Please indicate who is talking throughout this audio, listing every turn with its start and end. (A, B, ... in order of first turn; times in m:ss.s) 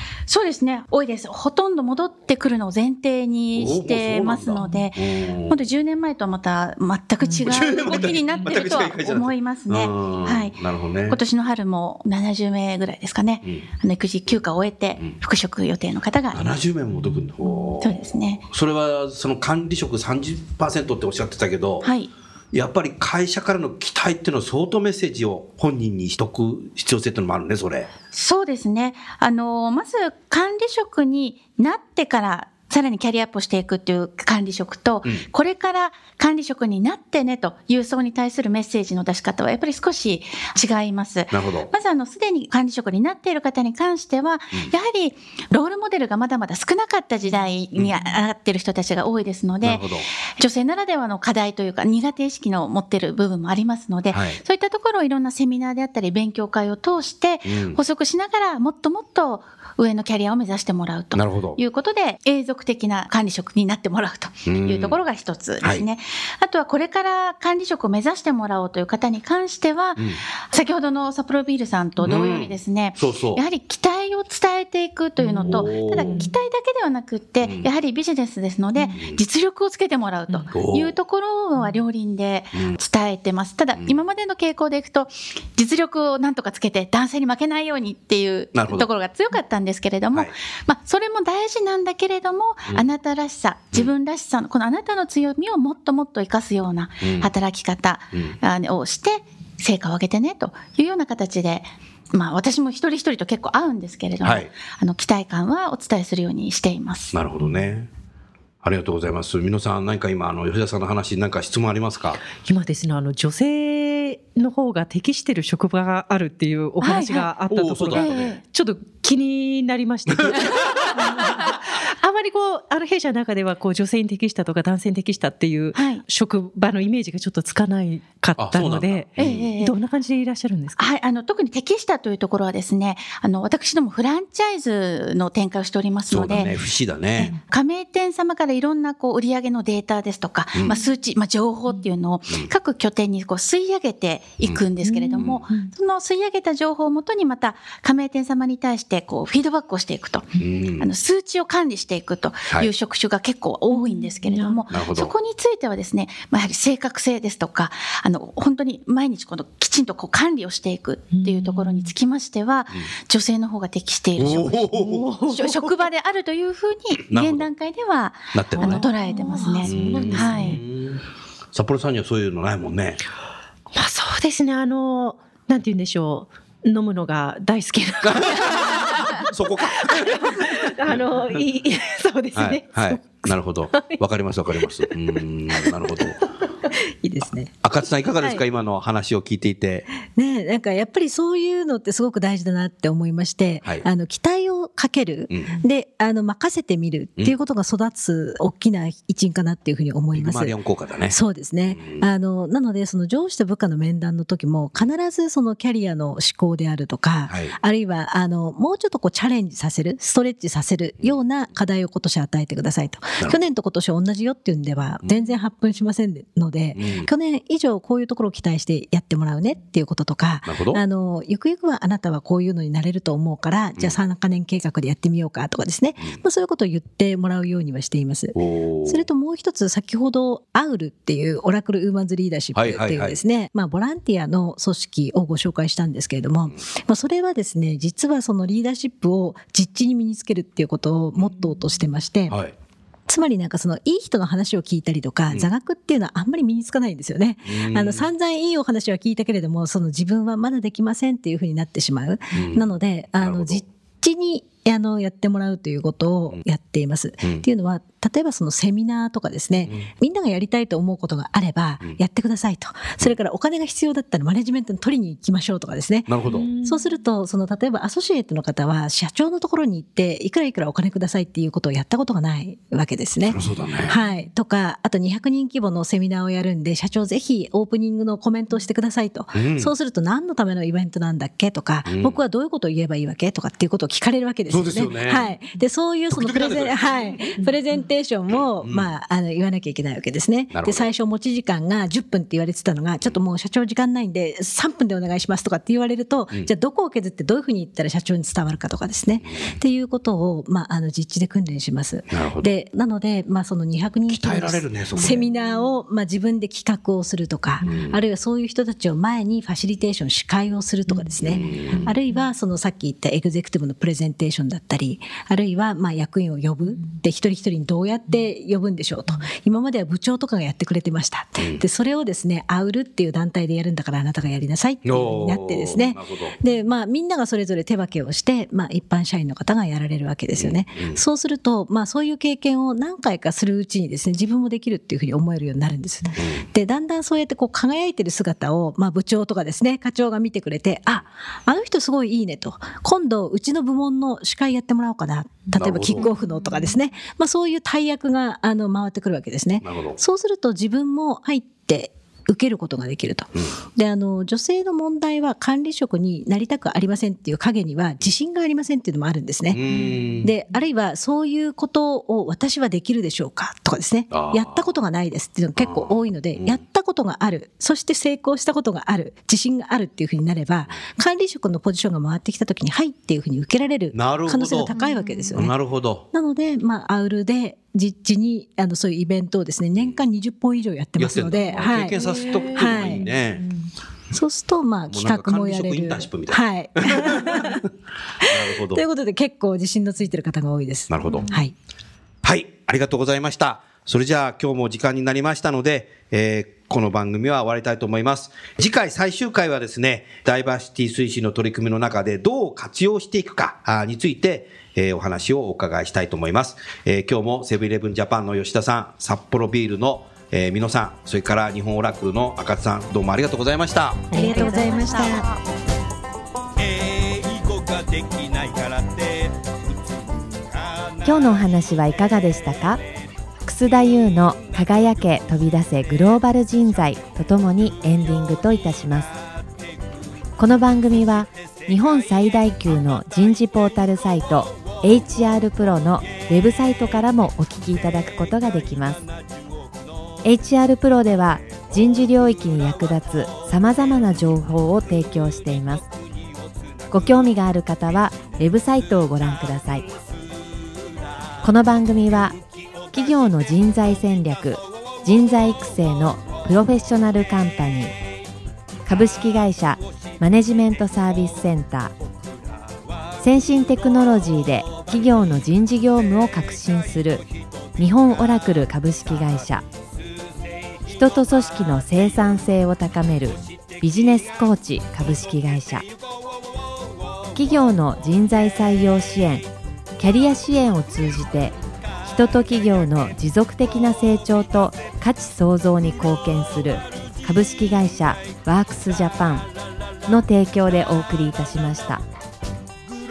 0:00.3-0:10.6 A
0:03.5-0:05.6 B
0:07.4-0:11.2 B
0:11.1-0:16.6 A
0:16.3-0:17.9 B
0:17.8-0:18.4 A
0:18.5-0:21.9 B
0:21.8-0:22.1 A
0:22.5-0:27.9 B
0:28.1-1:47.2 A
0:41.3-0:41.7 B
0:49.6-0:50.1 B
0:54.1-0:54.4 B
0:57.5-0:57.8 B
1:01.1-1:01.6 B
1:04.4-1:05.0 B
1:12.0-1:13.4 B
1:15.2-1:16.3 C
1:15.4-1:16.2 B
1:17.4-1:17.7 B
1:18.9-1:19.2 B
1:20.5-1:20.9 B
1:28.5-1:28.9 B
1:37.0-1:37.3 B
1:44.2-1:44.5 B
1:47.1-1:47.9 B
1:48.6-1:52.2 B
1:52.3-2:10.8 C
1:56.8-1:57.3 A
1:57.5-1:58.3 B
1:57.9-1:58.4 A
2:00.1-2:01.5 B
2:05.7-2:06.0 A
2:08.4-2:09.5 B
2:09.2-2:09.7 A
2:10.8-2:16.6 A
2:16.1-2:17.3 B
2:17.2-2:50.6 A
2:24.8-2:25.7 C
2:25.2-2:25.5 B
2:30.4-2:30.9 B
2:33.7-2:34.6 C
2:34.7-2:35.1 B
2:41.1-2:41.9 C
2:44.2-2:45.1 B
2:44.7-2:45.7 C
2:47.1-2:47.5 B
2:48.3-2:48.8 B
2:48.6-2:50.6 C
2:49.6-2:53.0 B
2:53.7-2:59.3 C
2:58.0-3:01.4 B
2:59.8-3:04.0 C
3:02.4-3:06.2 B
3:06.9-3:07.5 D
3:07.6-3:09.9 B
3:09.9-3:20.5 D
3:15.3-3:15.6 B
3:20.1-3:22.0 B
3:21.1-4:02.4 D
3:27.3-3:27.5 B
3:36.7-3:37.1 B
3:40.4-3:40.8 B
3:48.4-3:49.1 B
3:52.5-3:53.2 B
4:02.3-4:02.5 B
4:03.1-6:15.5 D
4:07.5-4:08.1 B
4:12.3-4:12.6 B
4:13.2-4:13.6 B
4:26.1-4:26.5 B
4:26.2-4:26.9 C
4:33.2-4:33.9 B
4:39.3-4:39.7 B
4:41.9-4:42.2 B
4:44.5-4:45.3 B
4:46.1-4:47.4 B
4:48.3-4:48.9 B
4:50.5-4:50.9 B
4:59.2-4:59.5 B
5:02.1-5:02.5 B
5:04.1-5:05.2 B
5:07.6-5:08.0 B
5:11.2-5:11.9 B
5:24.8-5:26.4 B
5:30.3-5:31.0 B
5:36.2-5:36.4 B
5:45.5-5:46.1 B
5:49.6-5:50.0 B
5:59.5-6:00.3 B
6:04.1-6:04.6 B
6:05.6-6:06.6 B
6:13.9-6:14.7 B
6:15.3-6:16.1 B
6:16.1-6:23.1 D
6:21.0-6:23.4 B
6:24.1-6:27.6 D
6:24.9-6:27.7 B
6:28.2-6:28.8 B
6:28.2-6:31.5 D
6:30.9-6:31.3 B
6:32.2-6:54.1 B
6:54.1-6:55.1 C
6:54.1-6:55.3 D
6:54.1-6:55.4 A
7:01.0-7:02.8 E
7:03.4-7:09.2 E
7:10.4-7:19.0 E
7:20.2-7:25.9 E
7:26.9-7:29.9 E
7:31.4-7:32.4 E
7:32.9-7:37.9 E
7:38.8-7:41.9 E
7:43.2-7:47.2 E
7:47.8-7:49.6 E
7:50.9-7:55.8 E
7:57.3-8:09.5 E
8:10.1-8:12.0 E